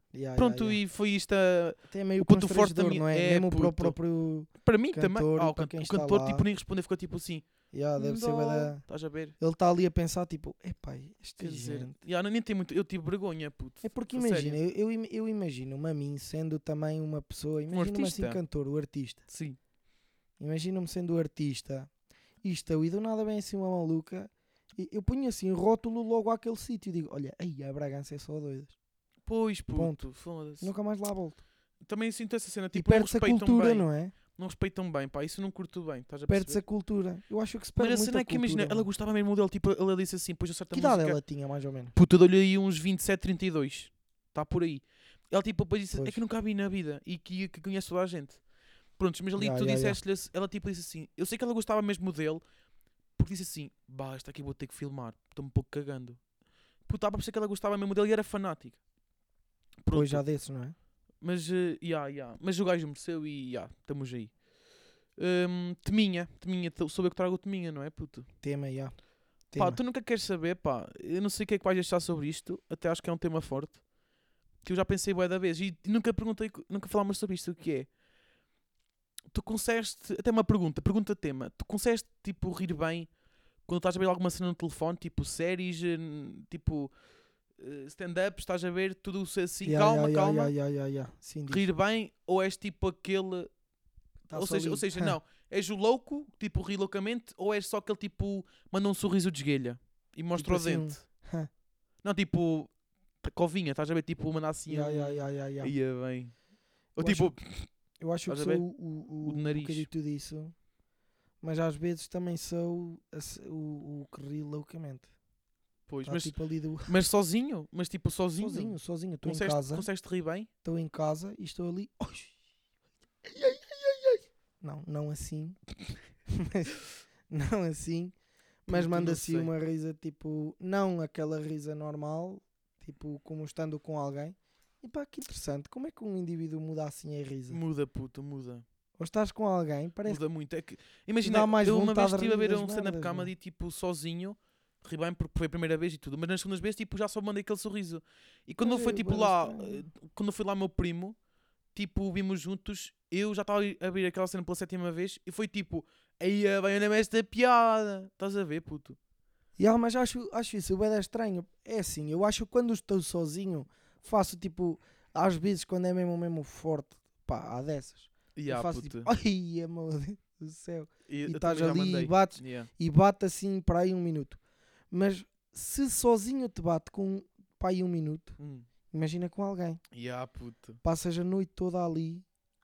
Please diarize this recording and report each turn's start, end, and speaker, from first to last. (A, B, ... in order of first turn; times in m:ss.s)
0:00.1-0:00.8 A
0:00.4-0:04.0 B
0:01.9-0:06.4 A
0:04.6-0:09.4 B
0:07.7-0:08.8 A
0:09.4-0:12.0 A
0:11.4-0:14.6 B
0:13.8-0:19.2 A
0:17.7-0:18.4 B
0:19.3-0:19.6 B
0:20.4-0:21.9 A
0:22.4-0:28.8 A
0:29.3-0:30.7 B
0:29.8-0:30.0 A
0:30.6-0:31.4 A
0:31.8-0:36.6 B
0:32.7-0:34.1 A
0:36.3-0:38.9 A
0:37.8-0:41.2 B
0:40.7-0:42.0 A
0:42.0-0:48.4 B
0:45.9-0:46.2 A
0:49.0-0:52.4 B
0:49.4-0:50.0 A
0:53.2-0:56.2 B
0:56.9-0:58.8 B
0:59.8-1:00.2 B
0:59.9-1:00.8 A
1:01.2-1:04.3 B
1:05.2-1:08.3 B
1:08.4-1:09.0 A
1:09.5-1:09.8 A
1:09.6-1:13.8 B
1:14.6-1:17.9 B
1:19.3-1:23.1 B
1:23.6-1:26.9 B
1:27.6-1:30.5 B
1:29.6-1:31.7 A
1:31.5-1:33.5 B
1:34.3-1:35.2 A
1:34.3-1:41.0 B
1:40.4-1:41.5 A
1:42.0-1:42.7 B
1:43.2-1:46.4 B
1:44.7-1:45.7 A
1:46.9-1:47.7 B
1:47.0-1:47.3 A
1:48.0-1:50.6 A
1:48.3-1:48.7 B
1:49.2-1:49.9 B
1:51.4-1:55.1 A
1:55.9-2:00.5 B
1:56.0-1:56.9 A
1:58.4-1:59.9 A
2:00.6-2:02.4 A
2:03.2-2:05.6 A
2:06.3-2:06.8 A
2:07.3-2:08.1 A
2:08.7-2:17.6 A
2:08.7-2:09.5 B
2:17.5-2:18.6 B
2:19.0-2:20.2 A
2:20.1-2:31.2 B
2:21.2-2:23.3 A
2:28.6-2:29.8 A
2:31.7-2:39.0 B
2:39.6-2:54.4 A
2:48.4-2:49.1 B
2:51.1-2:52.7 B
2:54.9-2:58.4 A
2:58.4-2:58.7 B
2:58.9-2:59.8 A
2:59.9-3:00.8 B
3:00.8-3:02.2 A